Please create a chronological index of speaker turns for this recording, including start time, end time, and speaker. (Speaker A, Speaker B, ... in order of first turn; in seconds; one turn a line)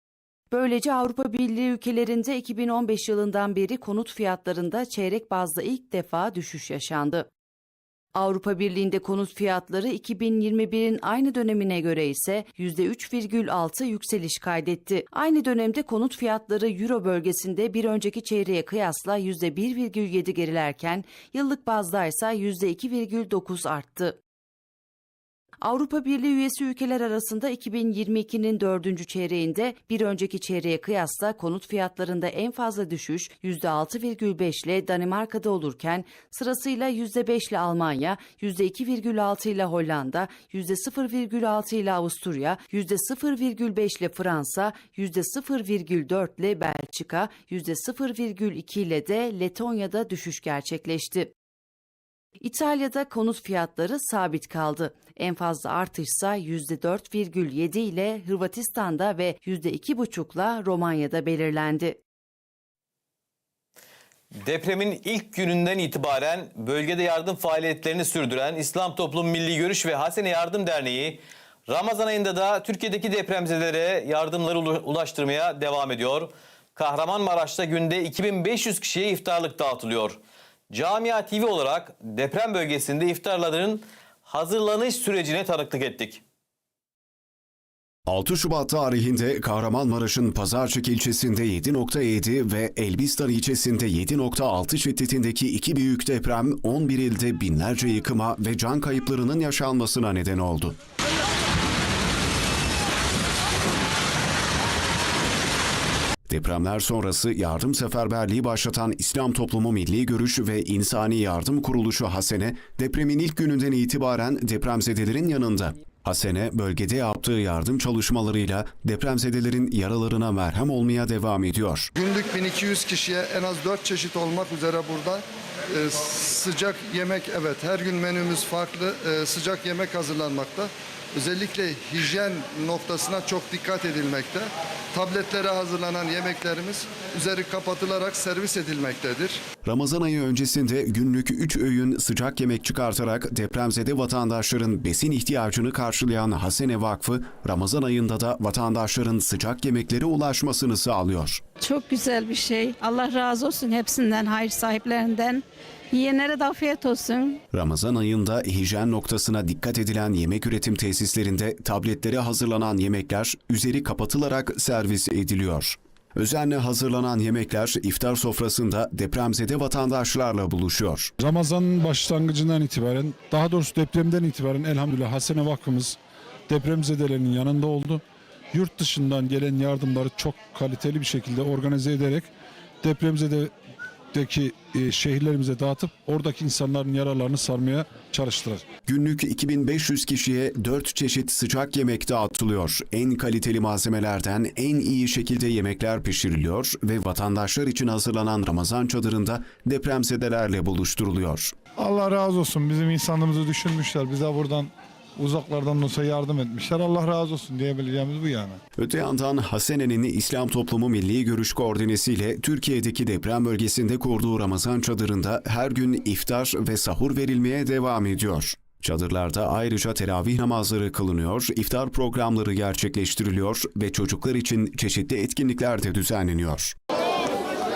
Speaker A: 0.5-7.3
Speaker A: 8.1-24.2
Speaker A: 25.6-51.3
Speaker A: 52.4-62.0
Speaker B: 64.4-80.2
Speaker B: 80.7-86.2
Speaker C: 88.1-100.8
Speaker C: 106.3-121.9
Speaker D: 122.0-139.4
Speaker C: 139.6-151.4
Speaker E: 151.6-157.4
Speaker C: 157.5-171.1
Speaker F: 171.2-176.0
Speaker F: 176.5-182.3
Speaker F: 182.8-183.5
Speaker F: 184.1-188.6
Speaker C: 188.9-201.5
Speaker G: 201.8-208.6
Speaker C: 208.8-226.8